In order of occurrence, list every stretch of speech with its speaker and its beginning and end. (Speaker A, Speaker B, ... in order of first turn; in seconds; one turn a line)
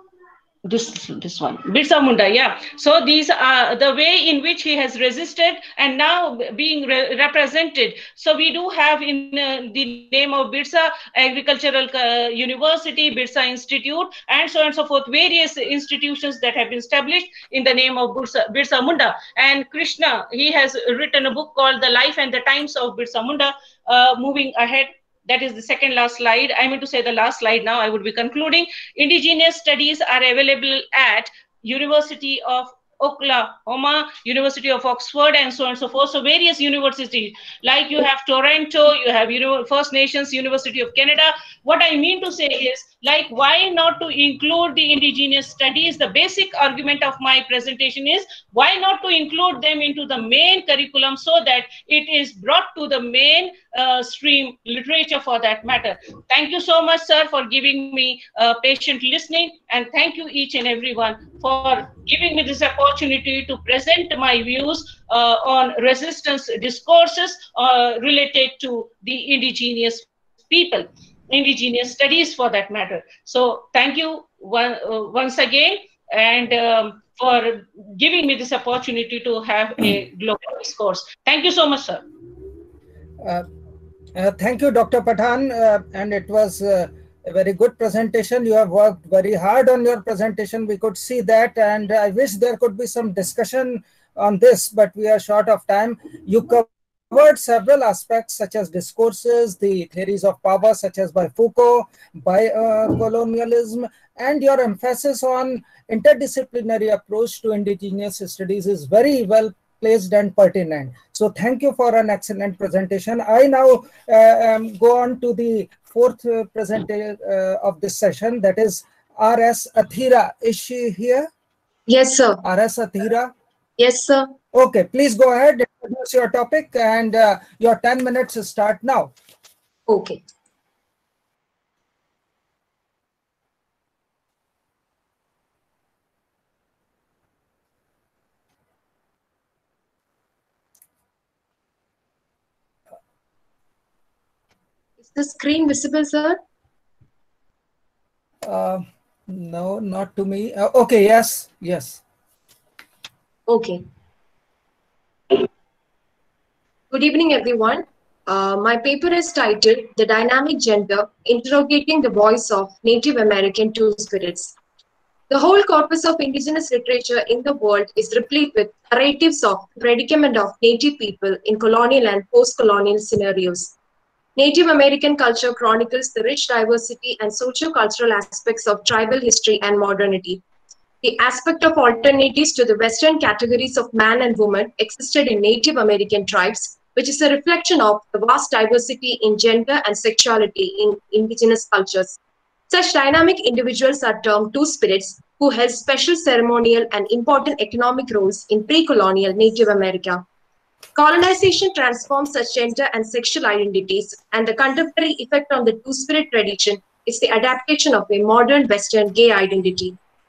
Speaker A: 0.7-82.0
Speaker B: 84.1-121.3
Speaker C: 121.9-122.4
Speaker B: 122.4-123.3
Speaker C: 123.8-124.3
Speaker B: 124.5-129.1
Speaker C: 129.9-130.2
Speaker C: 145.0-146.4
Speaker B: 148.4-152.0
Speaker C: 153.5-153.8
Speaker C: 156.9-164.5
Speaker C: 165.3-173.7
Speaker C: 174.4-180.4
Speaker C: 181.0-192.2
Speaker C: 192.7-200.2
Speaker C: 200.9-210.0